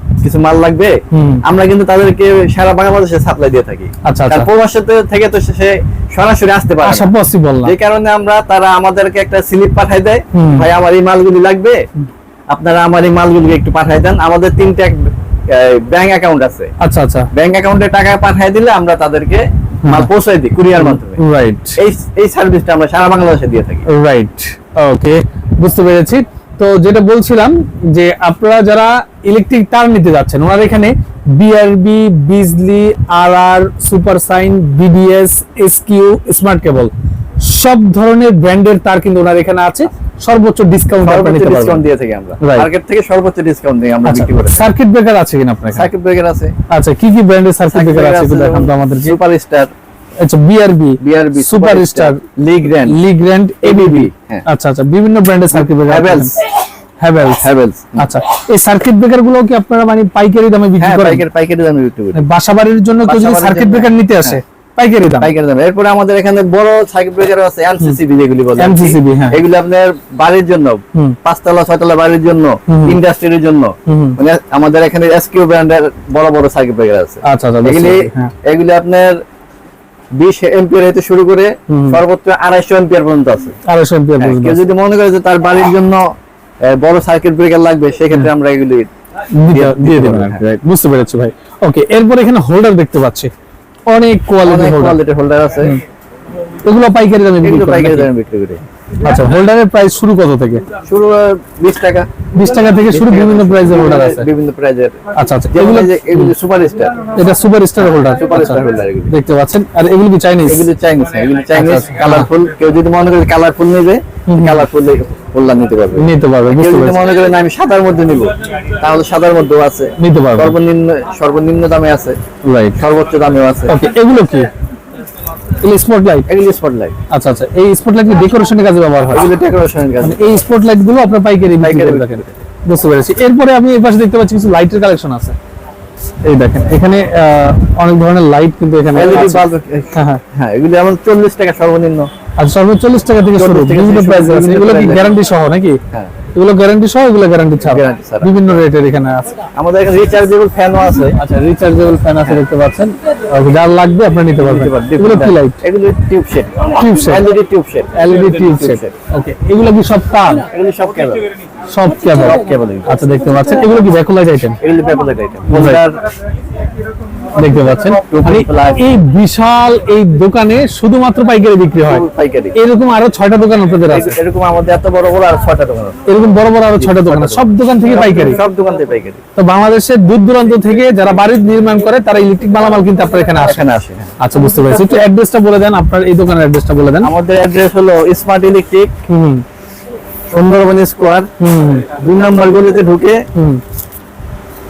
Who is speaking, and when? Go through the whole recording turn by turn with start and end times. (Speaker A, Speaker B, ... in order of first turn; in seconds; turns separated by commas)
Speaker A: 0.2-7.1, Speaker B: 1.1-1.4, Speaker B: 4.0-4.5, Speaker B: 6.8-7.7, Speaker A: 7.6-11.8, Speaker B: 10.3-10.7, Speaker A: 12.5-16.7, Speaker B: 16.8-17.3, Speaker A: 17.3-21.2, Speaker B: 19.8-20.1, Speaker B: 20.8-21.8, Speaker A: 21.8-23.9, Speaker B: 23.9-41.8, Speaker A: 41.0-44.7, Speaker B: 42.4-42.7, Speaker B: 44.1-45.9, Speaker A: 45.7-46.5, Speaker B: 46.7-49.2, Speaker A: 47.7-49.7, Speaker B: 50.2-52.2, Speaker A: 51.0-53.0, Speaker B: 52.9-56.3, Speaker A: 53.6-54.5, Speaker A: 55.5-56.5, Speaker B: 57.0-61.2, Speaker A: 57.4-58.1, Speaker A: 60.8-62.2, Speaker B: 62.1-65.3, Speaker A: 63.1-64.4, Speaker A: 65.2-79.2, Speaker B: 68.6-69.4, Speaker B: 72.7-73.0, Speaker B: 73.9-74.2, Speaker B: 77.2-78.3, Speaker A: 80.1-83.6, Speaker B: 81.7-82.0, Speaker B: 83.7-84.6, Speaker A: 84.2-86.0, Speaker A: 86.6-88.9, Speaker B: 89.4-93.3, Speaker A: 89.5-90.4, Speaker B: 93.9-95.0, Speaker A: 94.4-95.8, Speaker B: 96.6-98.1, Speaker A: 97.4-98.6, Speaker B: 99.0-100.7, Speaker A: 100.8-102.2, Speaker B: 102.3-104.3, Speaker A: 102.9-105.0, Speaker B: 105.1-106.3, Speaker A: 105.5-107.1, Speaker B: 107.1-110.7, Speaker A: 107.8-109.1, Speaker A: 110.5-122.2, Speaker B: 111.5-112.3, Speaker B: 114.3-114.7, Speaker B: 116.0-117.1, Speaker B: 120.0-120.6, Speaker B: 122.4-122.8, Speaker A: 122.8-123.8, Speaker B: 123.7-124.5, Speaker B: 125.6-126.3, Speaker A: 126.3-127.0, Speaker B: 127.1-129.3, Speaker A: 129.1-130.4, Speaker B: 130.0-135.4, Speaker A: 131.6-132.3, Speaker B: 136.2-139.4, Speaker A: 138.9-142.1, Speaker B: 139.9-140.2, Speaker B: 142.4-145.8, Speaker A: 143.4-145.2, Speaker B: 146.3-149.3, Speaker A: 147.6-148.6, Speaker A: 149.6-151.2, Speaker B: 151.1-155.6, Speaker A: 154.4-158.9, Speaker B: 156.7-157.2, Speaker B: 157.9-160.5, Speaker A: 160.5-161.2, Speaker B: 161.7-164.6, Speaker A: 162.1-163.1, Speaker A: 164.6-166.0, Speaker B: 165.5-165.8, Speaker B: 167.4-174.2, Speaker A: 167.7-168.9, Speaker A: 171.8-172.6, Speaker A: 173.9-176.0, Speaker B: 176.1-178.4, Speaker A: 176.8-179.2, Speaker B: 179.4-183.6, Speaker A: 183.4-184.1, Speaker B: 184.2-187.1, Speaker A: 187.0-188.9, Speaker B: 189.1-189.4, Speaker A: 190.3-191.3, Speaker B: 191.4-191.9, Speaker A: 191.9-193.2, Speaker B: 193.3-193.6